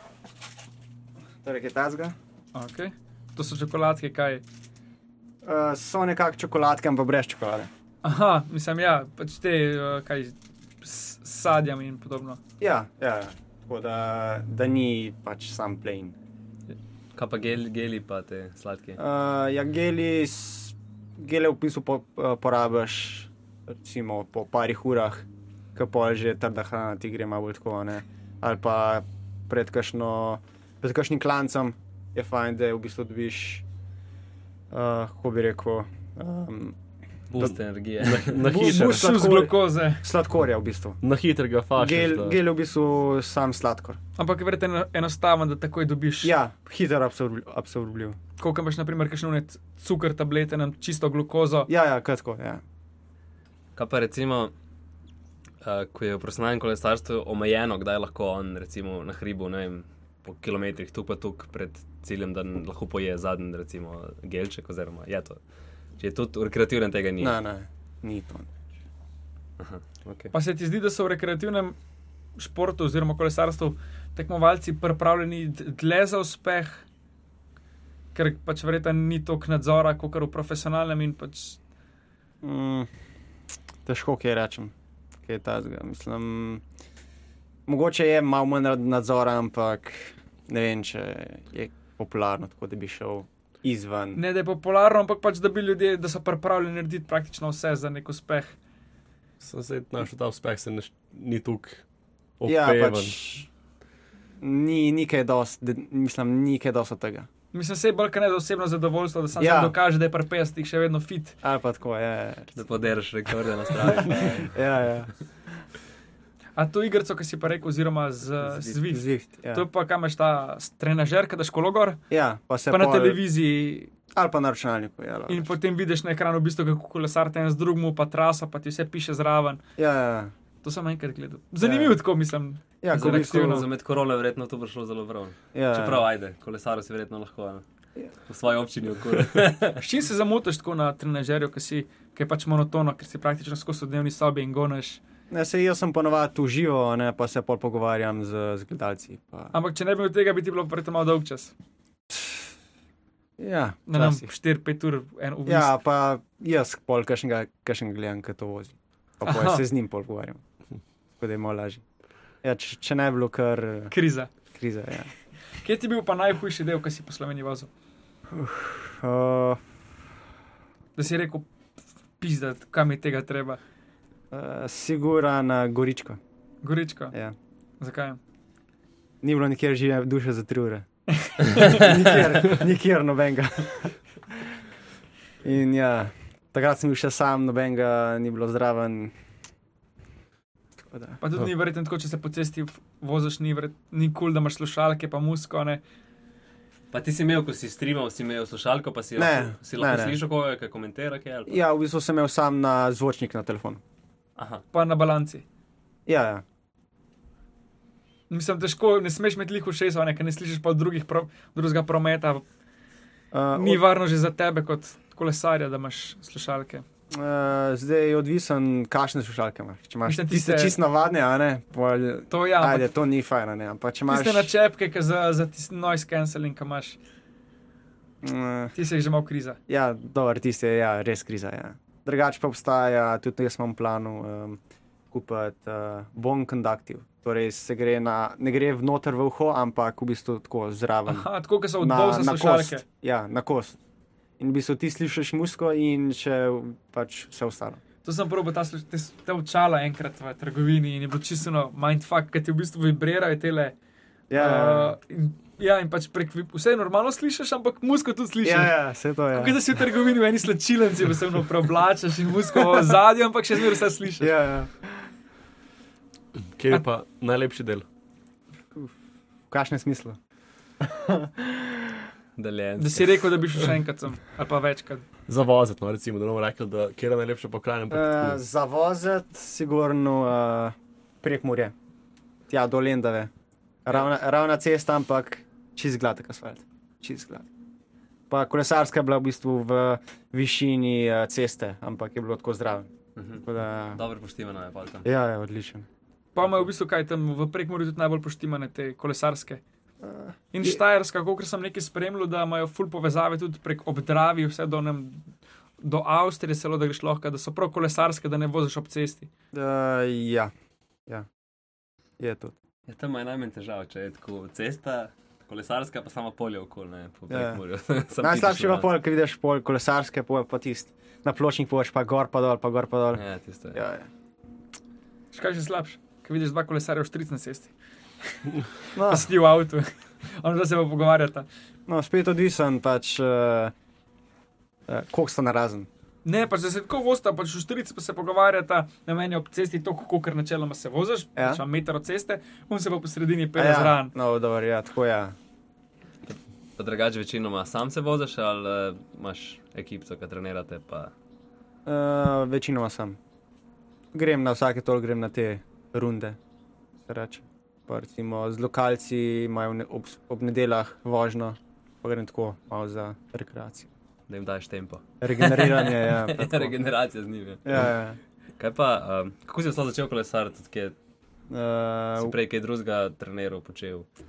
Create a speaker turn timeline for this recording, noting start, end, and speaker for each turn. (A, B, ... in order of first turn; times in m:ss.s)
0:01.4-0:02.2 A
0:02.5-0:04.4 B
0:05.4-0:07.7 A
0:08.0-0:12.4 B
0:12.6-0:16.2 A
0:17.1-0:19.0 C
0:19.0-0:33.6 A
0:34.7-0:36.8 A
0:37.3-0:38.5 C
0:37.4-0:39.1 D
0:38.4-0:41.0 A
0:38.5-0:40.0 B
0:41.0-0:42.4 D
0:41.7-0:44.0 A
0:44.2-0:46.3 B
0:46.2-0:48.2 A
0:48.4-0:51.7 B
0:51.7-0:52.6 A
0:53.8-0:54.5 C
0:55.6-1:05.4 C
1:06.0-1:07.4 C
1:07.2-1:08.6 A
1:09.6-1:10.3 C
1:10.3-1:11.8 B
1:12.4-1:16.8 B
1:18.1-1:21.6 B
1:22.4-1:22.9 A
1:23.8-1:24.7 A
1:25.2-1:26.6 A
1:27.7-1:34.2 A
1:34.1-1:38.6 B
1:39.4-1:41.8 D
1:42.4-1:43.2 D
1:42.4-1:43.5 A
1:44.4-1:47.3 A
1:47.5-1:51.4 B
1:49.4-1:49.8 A
1:51.4-1:52.6 A
1:52.6-1:54.6 C
1:53.8-1:55.1 A
1:56.6-2:02.0 B
1:58.7-1:59.6 A
2:02.1-2:03.2 A
2:02.7-2:03.9 B
2:04.1-2:05.5 A
2:05.3-2:09.6 B
2:09.8-2:10.3 A
2:10.6-2:13.7 B
2:11.6-2:12.0 A
2:12.8-2:13.6 A
2:12.9-2:17.6 C
2:15.5-2:16.0 A
2:18.3-2:19.8 C
2:19.8-2:25.0 B
2:25.3-2:29.5 A
2:29.5-2:31.5 B
2:32.1-2:32.4 A
2:33.4-2:34.3 A
2:33.9-2:35.8 B
2:35.4-2:40.4 A
2:39.2-2:39.6 B
2:41.2-2:41.8 A
2:42.4-2:43.9 A
2:43.9-2:44.3 B
2:44.5-2:45.1 A
2:45.6-2:47.7 B
2:48.3-2:49.6 A
2:51.0-2:51.5 B
2:52.2-2:53.6 B
2:54.3-2:56.2 A
2:56.6-2:57.1 B
2:57.8-2:58.2 B
2:59.2-3:00.8 A
3:01.2-3:01.9 B
3:01.6-3:04.6 A
3:05.4-3:09.1 A
3:10.8-3:11.2 A
3:11.2-3:15.8 B
3:16.9-3:21.6 C
3:19.2-3:20.2 A
3:21.5-3:23.8 A
3:24.4-3:24.6 C
3:24.7-3:25.4 B
3:26.0-3:26.4 A
3:28.3-3:32.4 B
3:33.3-3:33.8 A
3:33.5-3:36.8 B
3:37.1-3:44.5 A
3:40.0-3:40.8 B
3:42.3-3:42.9 B
3:44.1-3:47.0 B
3:48.2-3:48.7 A
3:48.7-3:49.6 B
3:49.7-3:54.6 A
3:55.1-4:01.3 A
4:01.1-4:02.8 B
4:01.8-4:03.8 A
4:04.4-4:07.8 A
4:08.0-4:13.7 B
4:14.3-4:15.0 A
4:14.3-4:18.8 B
4:18.4-4:19.8 A
4:19.3-4:24.3 B
4:22.7-4:23.0 A
4:24.2-4:25.1 A
4:26.5-4:27.8 D
4:29.5-4:30.2 A
4:30.8-4:32.1 A
4:32.4-4:33.3 C
4:32.8-4:35.0 B
4:35.3-4:38.4 D
4:37.9-4:41.7 A
4:42.5-4:43.3 A
4:43.8-4:47.5 A
4:48.3-4:52.9 A
4:53.2-4:55.0 C
4:53.4-4:54.0 A
4:55.0-4:55.9 A
4:56.3-4:59.6 B
5:00.0-5:00.8 A
5:00.5-5:09.3 B
5:09.5-5:10.5 A
5:12.2-5:12.5 A
5:12.9-5:18.9 C
5:17.3-5:17.6 A
5:18.2-5:23.2 A
5:23.1-5:23.8 C
5:23.7-5:24.1 A
5:25.3-5:27.7 B
5:28.2-5:31.4 B
5:28.9-5:29.3 A
5:31.9-5:33.7 A
5:34.9-5:35.9 A
5:36.2-5:44.1 B
5:41.4-5:41.6 A
5:43.6-5:45.3 A
5:46.3-5:51.1 C
5:51.8-5:53.2 A
5:54.1-5:56.4 A
5:57.0-6:03.9 A
6:04.3-6:07.9 C
6:05.2-6:06.7 A
6:07.6-6:08.2 A
6:08.6-6:10.9 C
6:11.5-6:12.3 A
6:12.2-6:14.0 C